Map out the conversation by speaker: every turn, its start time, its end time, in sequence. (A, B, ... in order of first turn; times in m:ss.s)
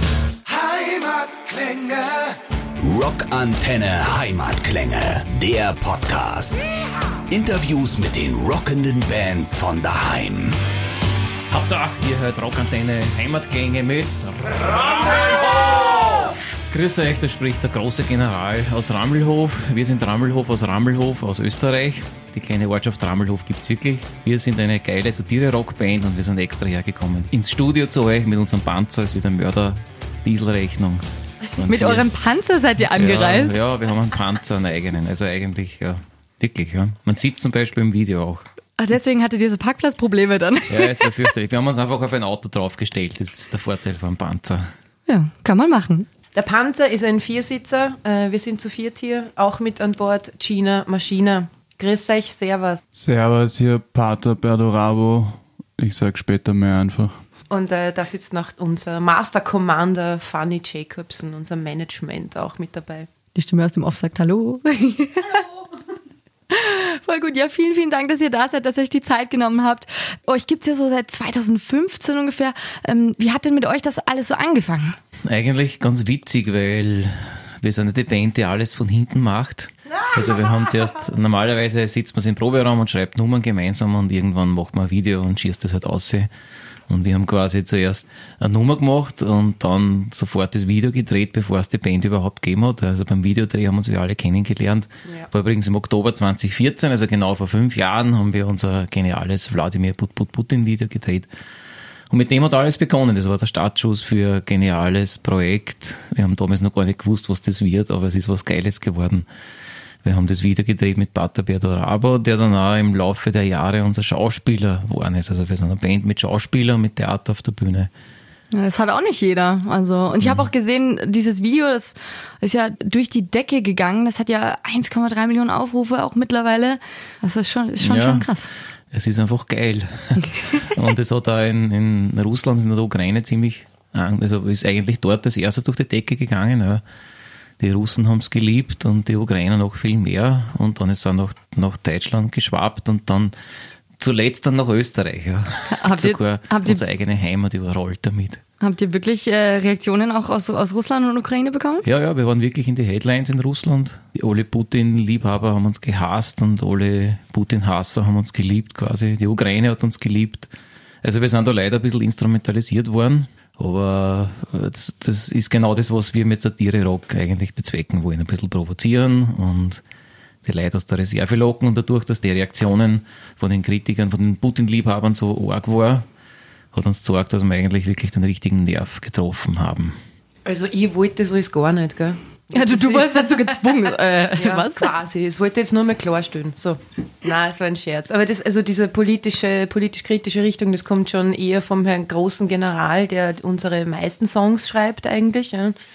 0:00.4-0:06.6 A
0:07.3-0:10.6 A
0:11.5-0:15.6 B
0:14.9-0:16.2 A
0:16.7-0:32.1 B
0:31.7-0:33.6 C
0:32.9-0:38.4 B
0:38.8-0:41.3 C
0:40.7-0:44.7 B
0:45.1-0:46.1 C
0:46.3-0:52.8 D
0:52.9-0:57.1 E
0:57.5-1:03.1 D
1:03.3-1:05.4 C
1:06.5-1:15.0 C
1:15.3-1:26.3 B
1:26.9-1:41.3 B
1:42.1-1:49.3 B
1:50.0-1:57.9 B
1:58.5-2:08.5 C
2:00.2-2:00.5 B
2:07.8-2:08.3 B
2:08.9-2:16.8 B
2:17.6-2:23.3 B
2:24.0-2:28.4 B
2:25.7-2:26.8 C
2:28.6-2:31.8 C
2:31.8-2:40.5 B
2:41.0-2:49.8 B
2:50.4-2:56.0 B
2:56.7-3:00.0 B
3:00.4-3:03.6 D
3:02.5-3:04.9 C
3:04.4-3:15.8 D